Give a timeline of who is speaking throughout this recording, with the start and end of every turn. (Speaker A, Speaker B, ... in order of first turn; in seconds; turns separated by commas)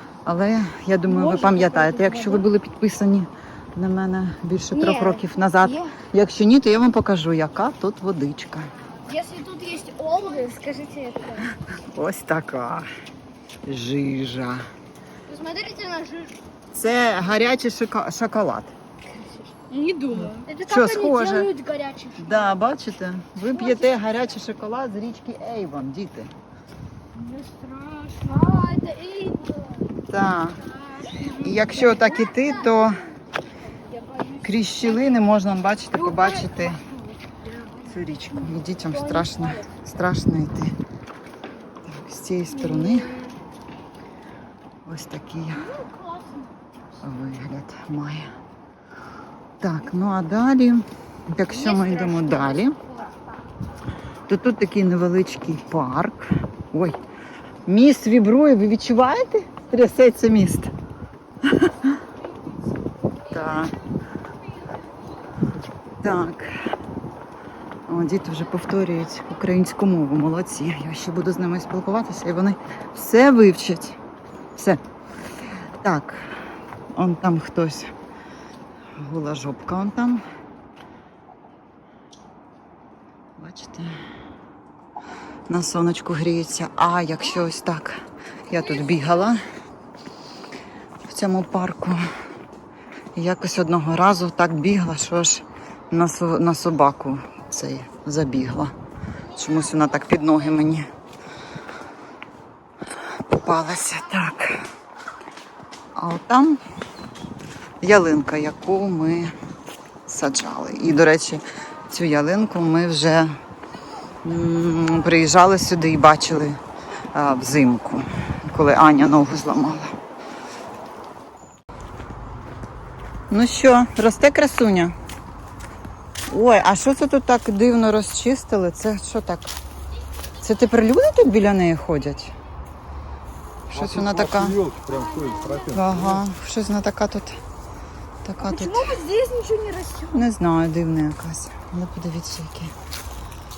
Speaker A: 0.2-8.7, Speaker B: 1.2-2.3, Speaker B: 4.7-5.9, Speaker B: 9.1-11.5, Speaker A: 11.7-12.9, Speaker A: 13.6-14.7, Speaker B: 15.3-16.4, Speaker A: 16.7-18.7, Speaker B: 19.2-22.6, Speaker A: 20.2-21.5, Speaker A: 22.2-26.3, Speaker B: 27.2-29.6, Speaker A: 30.1-30.6, Speaker B: 31.0-32.0, Speaker A: 31.2-33.0, Speaker B: 34.1-34.4, Speaker A: 34.4-36.8, Speaker B: 36.1-37.4, Speaker A: 37.8-40.8, Speaker B: 39.1-39.4, Speaker A: 41.9-43.1, Speaker B: 42.7-43.3, Speaker A: 44.9-45.7, Speaker B: 45.8-46.2, Speaker A: 47.0-48.3, Speaker A: 49.6-52.8, Speaker B: 51.7-52.9, Speaker A: 54.3-57.0, Speaker A: 57.7-60.7, Speaker A: 61.4-62.0, Speaker A: 63.3-63.7, Speaker A: 66.0-66.5, Speaker A: 67.9-74.0, Speaker A: 74.6-74.8, Speaker A: 75.8-77.9, Speaker A: 79.0-80.2, Speaker A: 83.4-84.0, Speaker A: 85.5-89.4, Speaker A: 91.0-92.0, Speaker A: 93.2-98.7, Speaker A: 99.4-100.9, Speaker A: 103.3-104.7, Speaker A: 106.0-106.6, Speaker A: 107.8-109.3, Speaker A: 110.1-113.3, Speaker A: 114.2-116.6, Speaker A: 117.1-119.9, Speaker A: 123.3-125.0, Speaker A: 126.3-129.6, Speaker A: 130.4-132.3, Speaker A: 133.7-134.6, Speaker C: 133.7-136.2, Speaker A: 135.7-137.4, Speaker A: 138.2-139.0, Speaker B: 138.4-140.2, Speaker A: 140.1-142.7